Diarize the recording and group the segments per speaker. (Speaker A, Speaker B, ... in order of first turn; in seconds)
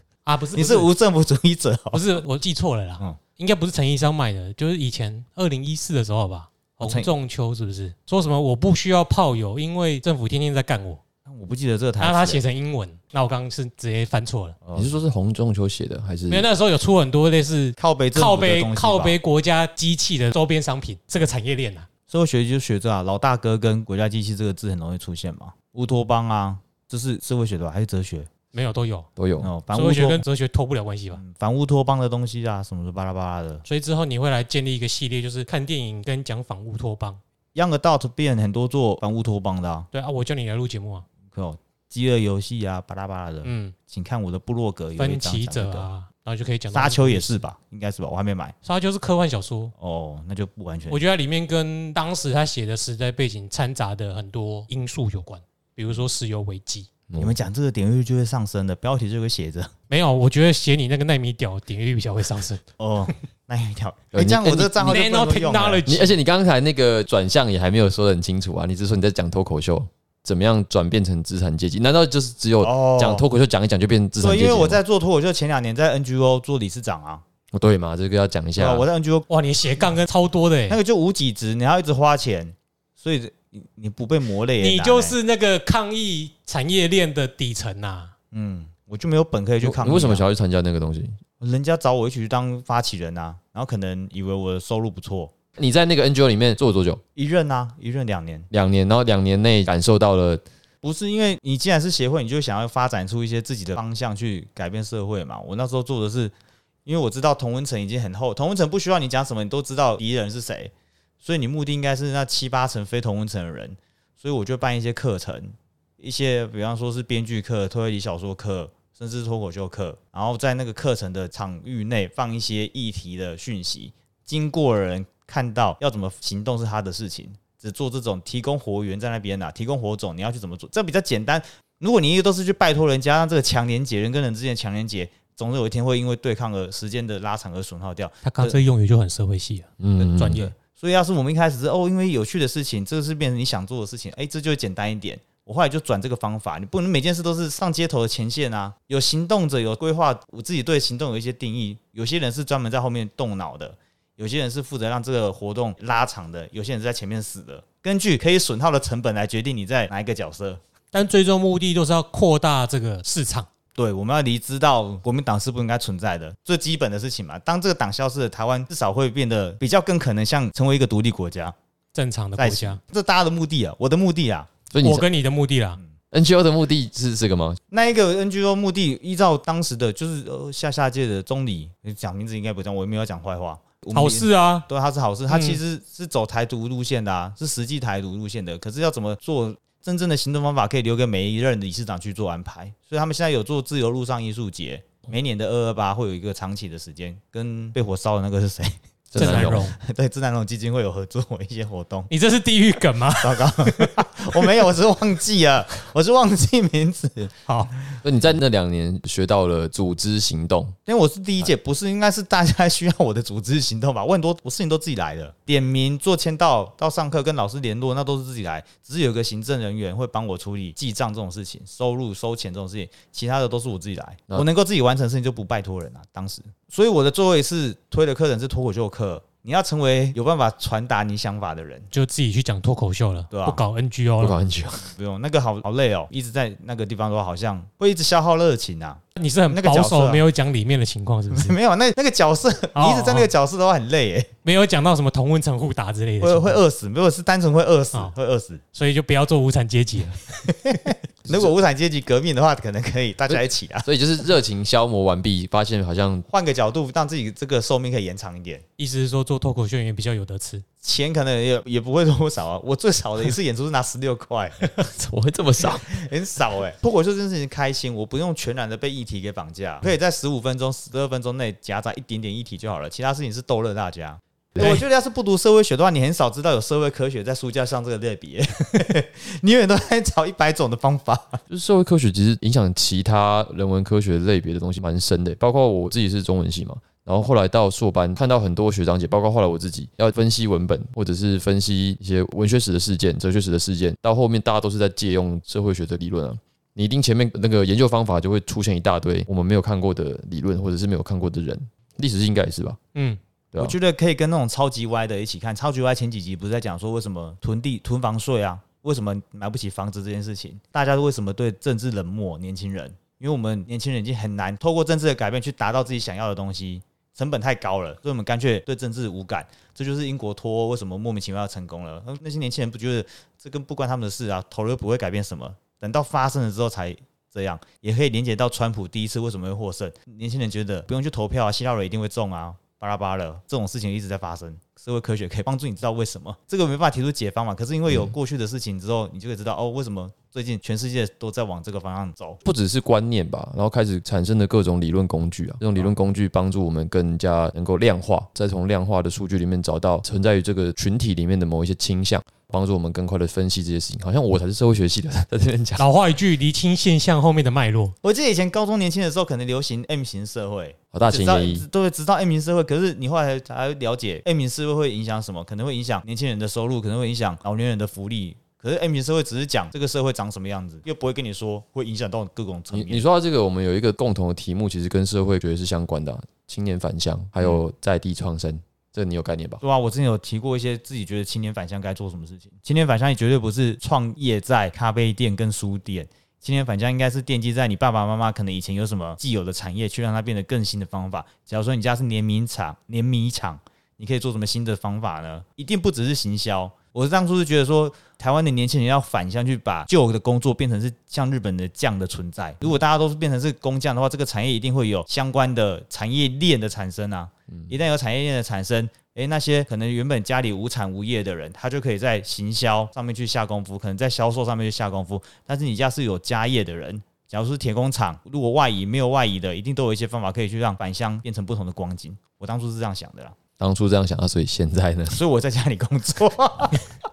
Speaker A: 0.2-0.9, 1.9-11.0, 12.0-14.6, 16.3-21.9, 28.5-29.1, 29.7-31.2, 33.6-37.2, 39.9-41.0, 43.4-43.8, 45.0-47.4, 48.6-49.7, 50.9-56.9, 59.9-62.6, 64.8-66.1, 79.3-80.8, 84.6-88.1, 138.2-140.5, 160.9-163.5, 171.9-172.8, 174.8-175.8, 183.9-184.7, 185.3-185.6, 199.2-199.8, 202.1-204.0, 231.9-234.4, 239.2-241.5, 242.8-243.3, 244.4-246.6, 248.7-250.4, 258.8-260.6, 355.8-357.9
Speaker B: 0.5-2.0, 6.8-7.1, 11.2-12.4, 14.6-14.9, 17.8-19.2, 22.1-28.3, 29.4-30.2, 31.1-33.6, 37.5-39.9, 41.3-45.9, 46.7-48.5, 49.8-51.0, 57.2-59.7, 62.8-65.8, 72.6-73.2, 74.2-77.2, 78.6-79.3, 80.7-85.2, 88.3-90.2, 91.4-95.3, 97.2-98.5, 100.8-106.3, 106.8-138.6, 140.0-160.6, 163.8-171.6, 172.4-174.5, 177.7-202.1, 203.2-207.9, 210.9-231.9, 233.3-233.6, 234.8-240.2, 241.3-244.3, 246.2-248.6, 250.5-253.9, 256.3-258.6, 260.8-264.8, 265.9-281.4, 303.6-342.4, 358.0-373.0, 379.6-423.4, 425.1-426.8
Speaker C: 14.7-16.5, 29.2-29.5, 64.1-65.0, 65.9-74.8, 77.5-78.8, 89.6-91.2, 95.6-97.0, 98.5-100.4, 139.8-140.5, 174.7-175.1, 176.1-177.6, 199.1-199.7, 208.0-210.8, 234.2-234.9, 253.3-256.3, 264.8-265.9, 281.5-302.8, 342.4-355.8, 360.9-361.6, 372.7-379.6, 423.6-425.2